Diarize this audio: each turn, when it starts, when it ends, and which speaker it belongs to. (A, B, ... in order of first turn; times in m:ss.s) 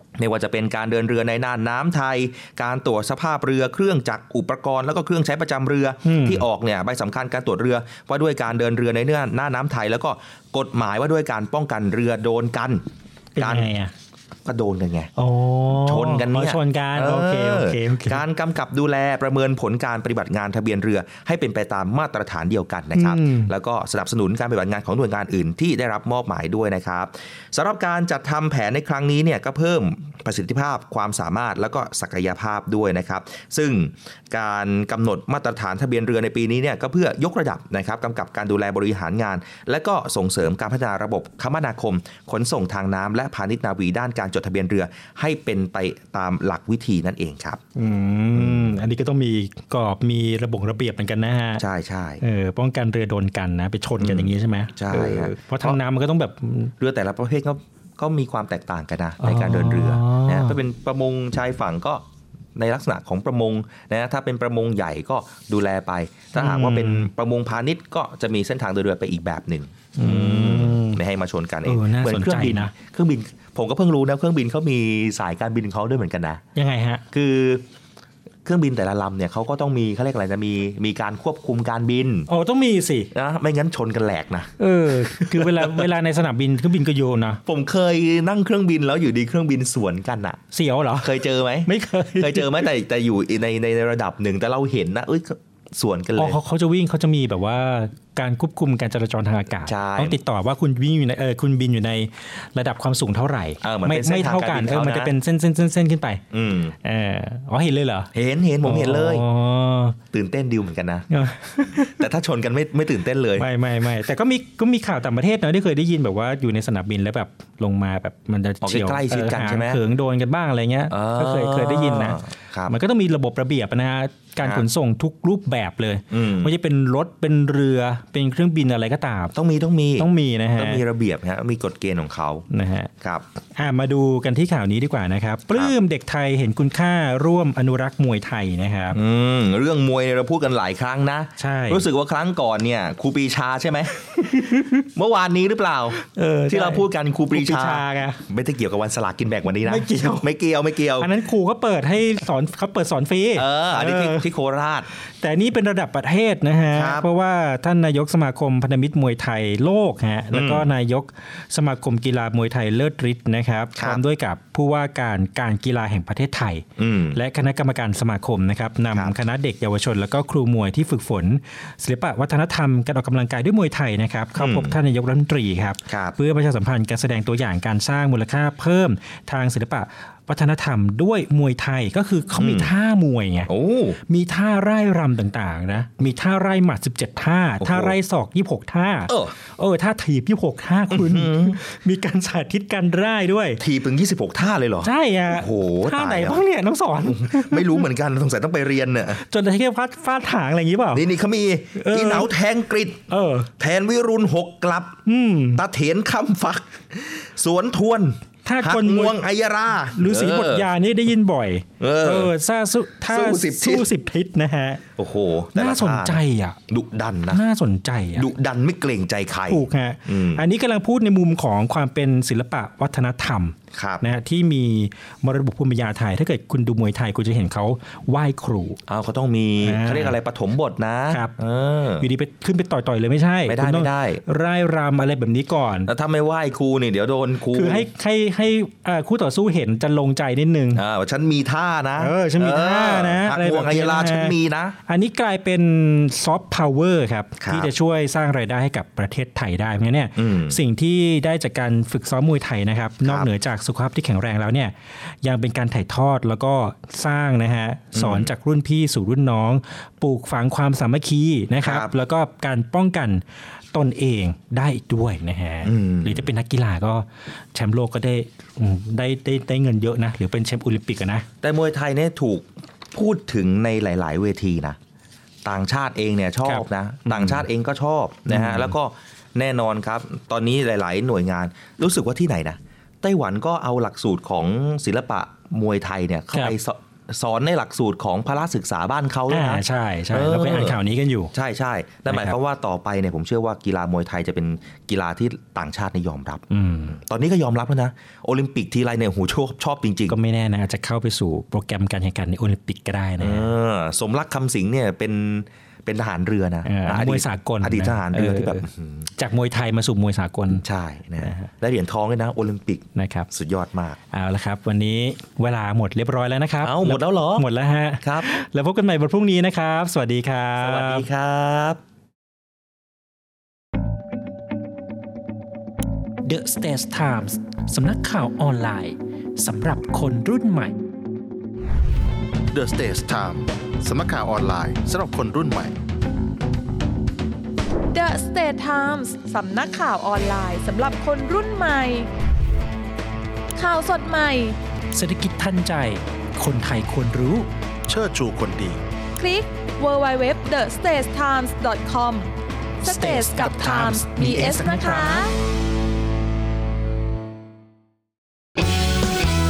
0:00.2-0:12.8 A
0:06.0-0:06.4 B
0:13.4-0:13.9 B
0:13.4-0:13.7 A
0:14.4-0:15.1 A
0:15.2-0:18.2 B
0:15.7-0:47.6 A
0:22.9-0:23.5 B
0:47.7-0:51.6 B
0:48.3-0:48.8 A
0:51.6-0:52.2 A
0:52.2-0:56.7 B
0:54.0-0:55.8 A
0:56.8-1:16.4 A
0:59.2-1:00.6 B
1:06.3-1:07.1 B
1:10.0-1:11.0 B
1:11.6-1:12.7 B
1:16.5-1:17.0 B
1:17.1-1:17.6 A
1:18.4-1:22.3 A
1:22.3-1:23.1 B
1:23.1-1:25.9 A
1:24.6-1:27.4 B
1:27.4-1:30.4 A
1:30.5-1:31.1 B
1:31.0-1:36.4 A
1:31.6-1:32.7 B
1:36.2-1:46.2 B
1:39.6-1:40.2 A
1:43.6-1:45.1 A
1:46.3-1:46.8 A
1:46.8-1:48.1 B
1:48.1-1:49.2 A
1:48.6-1:50.0 B
1:50.1-1:51.1 A
1:51.1-1:52.0 B
1:51.9-1:53.5 A
1:53.4-2:09.3 B
1:58.6-1:59.8 A
2:00.9-2:02.7 A
2:06.1-2:06.5 A
2:09.3-2:12.4 A
2:10.0-2:10.8 B
2:12.5-2:12.9 B
2:13.6-2:19.0 B
2:18.9-2:23.9 A
2:21.4-2:21.8 B
2:24.2-2:24.8 B
2:24.8-2:31.1 A
2:26.0-2:28.2 B
2:29.6-2:30.3 B
2:31.0-2:34.2 B
2:33.4-2:34.9 A
2:35.2-3:03.5 B
2:36.7-2:37.1 A
2:40.3-2:40.6 A
2:43.8-2:44.0 A
2:46.8-2:47.2 A
2:54.4-2:54.8 A
2:55.9-2:56.2 A
3:02.4-3:02.7 A
3:03.5-3:04.0 A
3:04.1-3:13.6 B
3:07.6-3:08.0 A
3:09.1-3:09.3 A
3:10.9-3:11.6 A
3:13.6-3:16.4 A
3:14.8-3:17.8 B
3:17.0-3:19.2 A
3:19.2-3:21.0 B
3:20.9-3:23.0 A
3:21.7-3:22.3 B
3:23.1-3:23.5 B
3:23.6-3:25.0 A
3:25.0-3:25.6 B
3:25.6-3:30.7 A
3:28.4-3:29.2 B
3:29.9-3:34.8 B
3:31.8-3:32.3 A
3:33.1-3:33.9 A
3:35.0-3:37.4 A
3:35.5-3:36.6 B
3:37.3-3:38.3 B
3:38.2-3:40.4 A
3:39.5-3:48.8 B
3:43.7-3:44.0 A
3:48.9-3:52.1 A
3:49.6-3:50.2 B
3:51.1-3:51.3 B
3:52.0-3:55.9 B
3:53.5-3:54.2 A
3:55.9-3:57.9 A
3:57.5-4:00.8 B
4:00.7-4:04.8 A
4:02.0-4:23.2 B
4:07.4-4:07.7 A
4:10.2-4:10.6 A
4:13.0-4:13.3 A
4:17.9-4:18.3 A
4:21.6-4:21.9 A
4:23.7-4:31.3 B
4:25.6-4:26.3 A
4:31.4-4:34.8 A
4:35.4-4:50.8 A
4:36.4-4:37.4 B
4:38.3-4:38.7 B
4:49.3-4:51.3 B
4:51.3-5:00.2 A
4:52.1-4:52.4 B
4:56.5-4:57.0 B
5:00.1-5:03.5 B
5:03.2-5:09.1 A
5:06.6-5:08.6 B
5:09.2-5:10.6 B
5:10.5-5:14.0 A
5:11.2-5:11.5 B
5:13.0-5:13.3 B
5:14.1-5:21.0 B
5:16.6-5:17.5 A
5:18.0-5:18.3 A
5:20.6-5:21.8 A
5:26.2-5:30.7 B
5:32.5-5:35.7 C
5:37.9-5:42.1 D
5:43.6-5:44.6 D
5:44.9-5:47.5 B
5:47.9-5:48.8 C
5:49.2-5:52.3 D
5:52.8-5:55.3 D
5:52.8-5:55.2 B